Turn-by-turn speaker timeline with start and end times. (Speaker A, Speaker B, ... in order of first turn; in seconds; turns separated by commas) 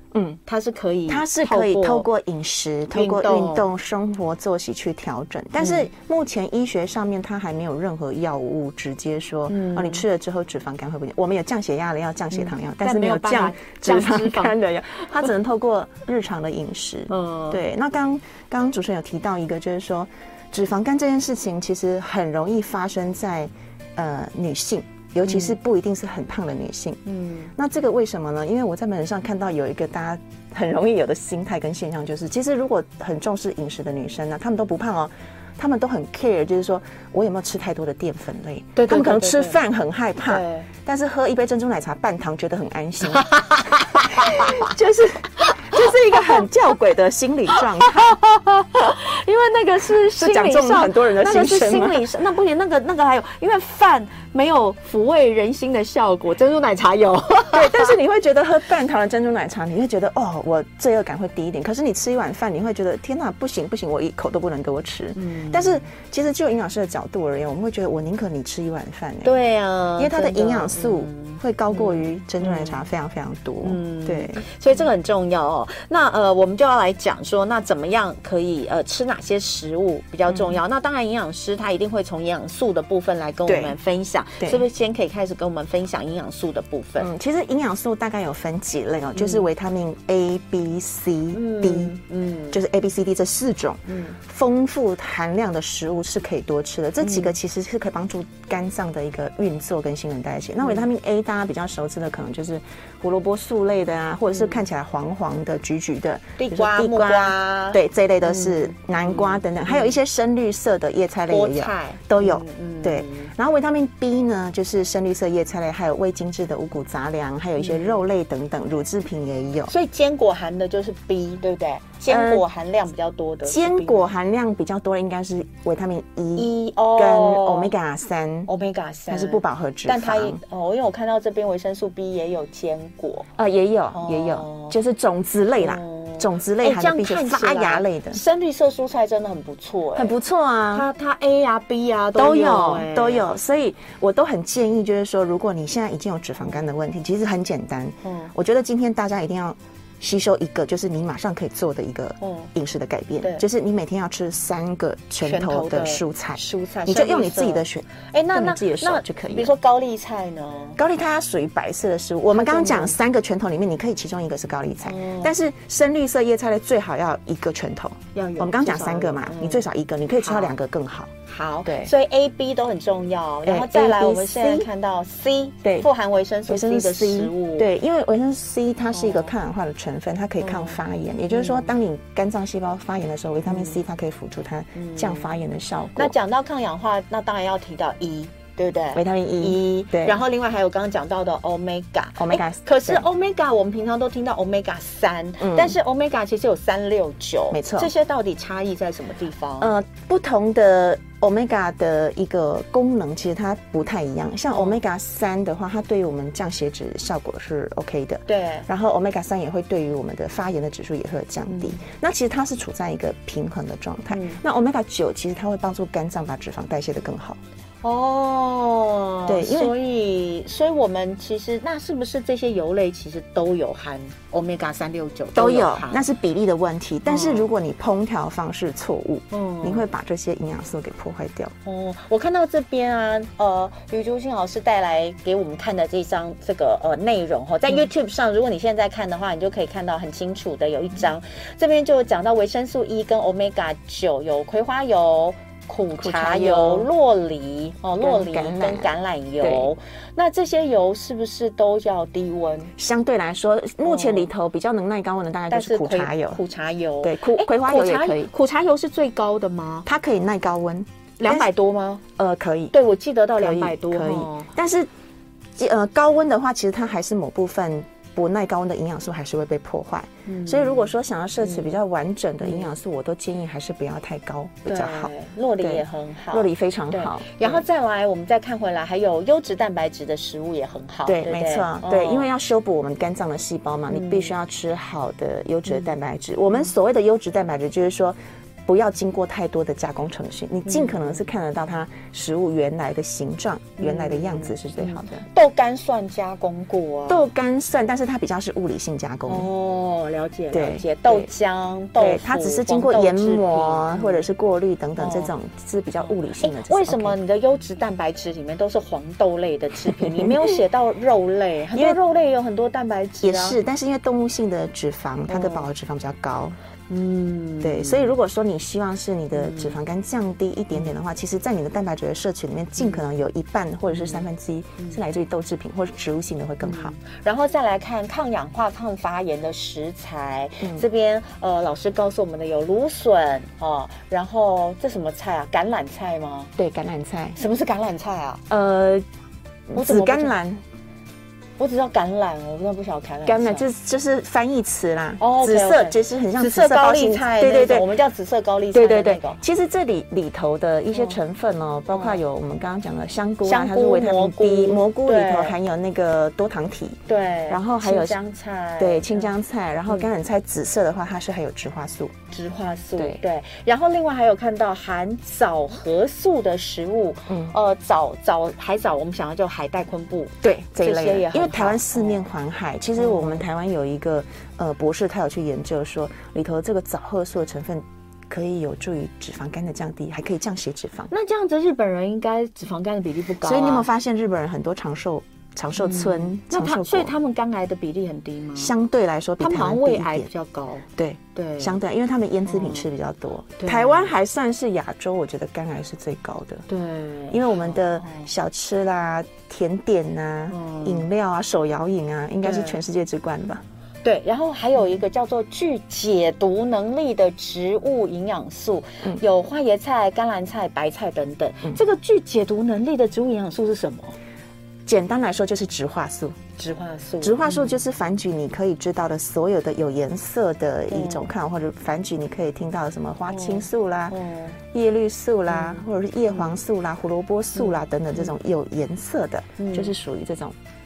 Speaker A: 0.1-0.4, Speaker B: 0.5-2.1, Speaker A: 1.1-27.0, Speaker B: 2.9-3.7, Speaker B: 5.6-5.9, Speaker B: 9.5-10.0, Speaker B: 12.3-14.6, Speaker B: 17.1-17.6, Speaker B: 25.2-25.6, Speaker B: 27.1-27.5, Speaker A: 27.5-43.3, Speaker B: 38.8-39.6, Speaker B: 40.2-40.7, Speaker B: 43.5-44.7, Speaker A: 43.9-48.2, Speaker B: 47.5-57.9, Speaker A: 50.1-52.0, Speaker A: 57.5-69.3, Speaker B: 65.2-65.9, Speaker B: 69.2-72.8, Speaker A: 70.0-74.5, Speaker B: 73.6-87.1, Speaker A: 80.3-80.6, Speaker A: 83.5-83.8, Speaker A: 84.4-84.6, Speaker A: 87.0-92.0, Speaker B: 89.1-89.5, Speaker B: 91.3-92.6, Speaker A: 92.5-119.7, Speaker B: 93.9-94.2, Speaker B: 97.0-97.3, Speaker B: 104.3-104.6, Speaker B: 106.4-110.0, Speaker B: 111.3-113.3, Speaker B: 117.6-118.0, Speaker B: 119.7-124.1, Speaker A: 122.1-122.4, Speaker A: 123.4-128.5, Speaker B: 126.3-127.7, Speaker B: 128.5-133.3, Speaker A: 129.1-130.4, Speaker A: 133.3-138.2, Speaker B: 133.9-134.8, Speaker B: 135.6-140.2, Speaker A: 139.9-140.9, Speaker B: 140.7-143.3, Speaker A: 142.2-159.5, Speaker B: 148.0-148.3, Speaker B: 152.2-152.5, Speaker B: 155.2-160.8, Speaker A: 160.8-171.1, Speaker B: 162.3-163.0, Speaker B: 164.8-165.3, Speaker B: 168.1-169.7, Speaker B: 170.2-170.5, Speaker B: 171.2-177.7, Speaker A: 171.6-171.9, Speaker A: 173.4-174.7, Speaker A: 176.5-186.1, Speaker B: 178.9-179.3, Speaker B: 180.4-180.8, Speaker B: 181.3-181.7, Speaker B: 183.5-183.8, Speaker B: 184.8-185.3, Speaker B: 185.9-199.7, Speaker A: 188.9-190.2, Speaker A: 192.2-193.1, Speaker A: 195.4-195.8, Speaker A: 197.5-197.9, Speaker A: 199.6-217.4, Speaker B: 204.5-204.8, Speaker B: 208.3-208.7, Speaker B: 211.5-211.8, Speaker B: 214.1-214.4, Speaker B: 217.8-226.0, Speaker A: 219.3-219.7, Speaker A: 225.3-231.5, Speaker B: 227.1-227.5, Speaker B: 229.3-229.9, Speaker B: 231.6-252.7, Speaker A: 246.0-246.9, Speaker A: 248.0-249.7, Speaker A: 252.8-256.4, Speaker B: 253.8-254.3, Speaker B: 255.5-259.9, Speaker A: 257.0-258.3, Speaker A: 259.9-261.5, Speaker B: 261.2-262.0, Speaker A: 262.2-262.7, Speaker B: 262.7-264.5, Speaker A: 263.4-264.9, Speaker A: 265.6-277.6, Speaker B: 270.2-271.8, Speaker B: 272.4-272.7, Speaker B: 274.6-282.3, Speaker A: 281.1-295.2, Speaker B: 283.9-284.3, Speaker B: 285.7-285.9, Speaker B: 290.6-291.3, Speaker B: 293.8-297.2, Speaker A: 297.1-299.5, Speaker B: 299.2-304.2, Speaker A: 300.5-301.3, Speaker A: 302.0-307.2, Speaker B: 305.0-305.3, Speaker B: 306.4-313.6, Speaker A: 311.7-312.0, Speaker A: 313.2-316.6, Speaker B: 315.3-315.7, Speaker B: 316.9-318.1, Speaker A: 317.6-326.9, Speaker B: 319.3-319.8, Speaker B: 322.8-323.1, Speaker B: 323.9-324.2, Speaker B: 326.6-336.5, Speaker A: 330.6-330.9, Speaker A: 336.6-337.4, Speaker B: 337.4-338.4, Speaker A: 338.5-339.1, Speaker A: 339.7-340.6, Speaker B: 339.7-340.3, Speaker B: 341.6-343.6, Speaker A: 343.2-347.9, Speaker B: 345.2-349.4, Speaker A: 348.7-358.2, Speaker B: 350.9-351.2, Speaker B: 351.9-352.2, Speaker B: 353.4-355.6, Speaker B: 357.1-359.3, Speaker A: 358.8-362.1, Speaker B: 362.3-372.3, Speaker A: 367.3-367.5, Speaker A: 370.4-381.1, Speaker B: 372.9-373.4, Speaker B: 381.1-383.9, Speaker A: 383.4-387.1, Speaker B: 385.8-388.7, Speaker A: 388.6-390.3, Speaker B: 389.4-391.8, Speaker A: 390.9-396.6, Speaker B: 392.4-392.9, Speaker B: 393.6-394.1, Speaker B: 396.7-398.3, Speaker A: 397.3-403.6, Speaker B: 400.5-401.1, Speaker B: 402.4-402.8, Speaker B: 404.0-414.2, Speaker A: 414.9-416.4, Speaker B: 416.6-417.8, Speaker A: 417.2-424.1, Speaker B: 420.9-421.3, Speaker B: 423.3-424.6, Speaker A: 424.7-430.6, Speaker B: 425.5-426.6, Speaker B: 427.5-428.3, Speaker B: 429.6-429.9